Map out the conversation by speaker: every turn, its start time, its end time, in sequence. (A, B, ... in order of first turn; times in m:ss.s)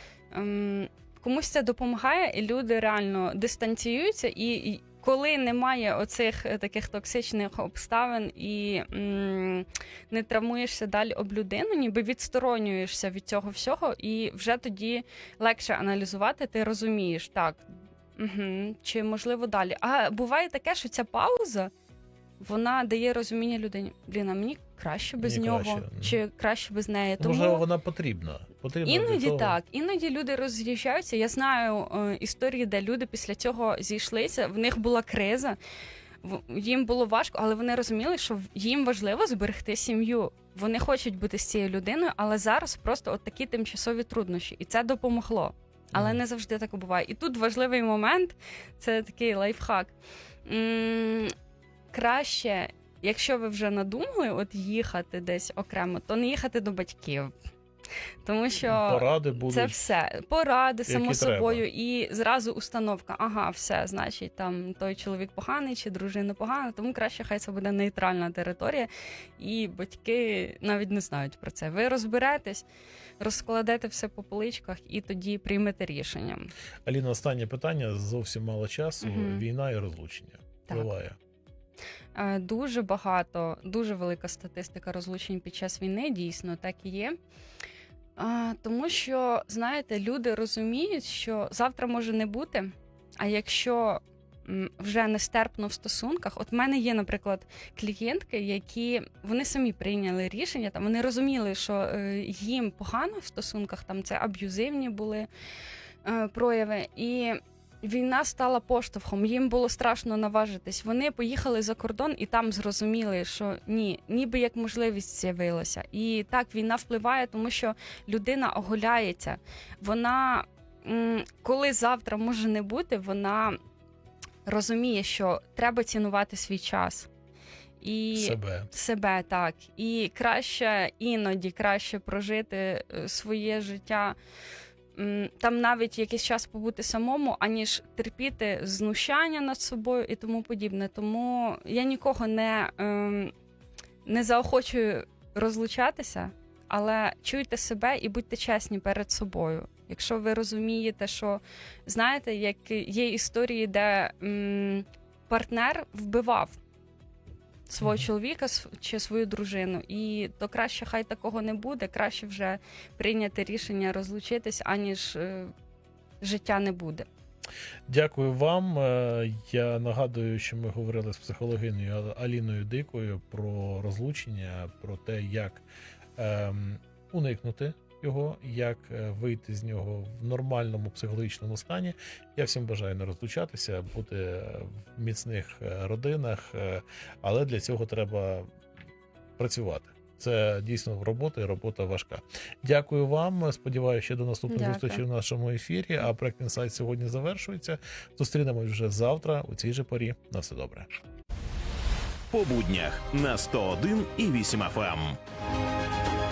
0:00.3-0:21.7 A
0:22.4-0:27.6 A
0:25.2-0:26.2 B
0:27.2-0:29.6 B
0:28.8-0:35.6 A
0:36.2-0:49.9 A
0:46.0-0:46.2 B
0:50.4-0:51.3 A
0:51.9-0:57.3 A
0:58.2-1:12.7 A
0:58.7-0:59.8 B
1:00.9-1:01.6 B
1:13.2-1:16.5 A
1:16.8-1:21.2 B
1:19.0-1:19.4 A
1:20.7-1:20.9 A
1:22.2-1:27.2 A
1:28.2-1:45.3 A
1:46.0-2:03.6 A
2:04.4-2:07.1 A
2:07.8-2:14.2 A
2:08.1-2:08.7 B
2:15.0-2:23.3 A
2:24.1-2:36.6 A
2:37.7-2:45.5 A
2:37.8-2:38.1 B
2:46.2-2:47.1 A
2:47.9-2:55.6 B
2:56.2-3:08.5 B
3:09.4-3:20.9 B
3:14.5-3:15.0 A
3:22.3-3:25.2 C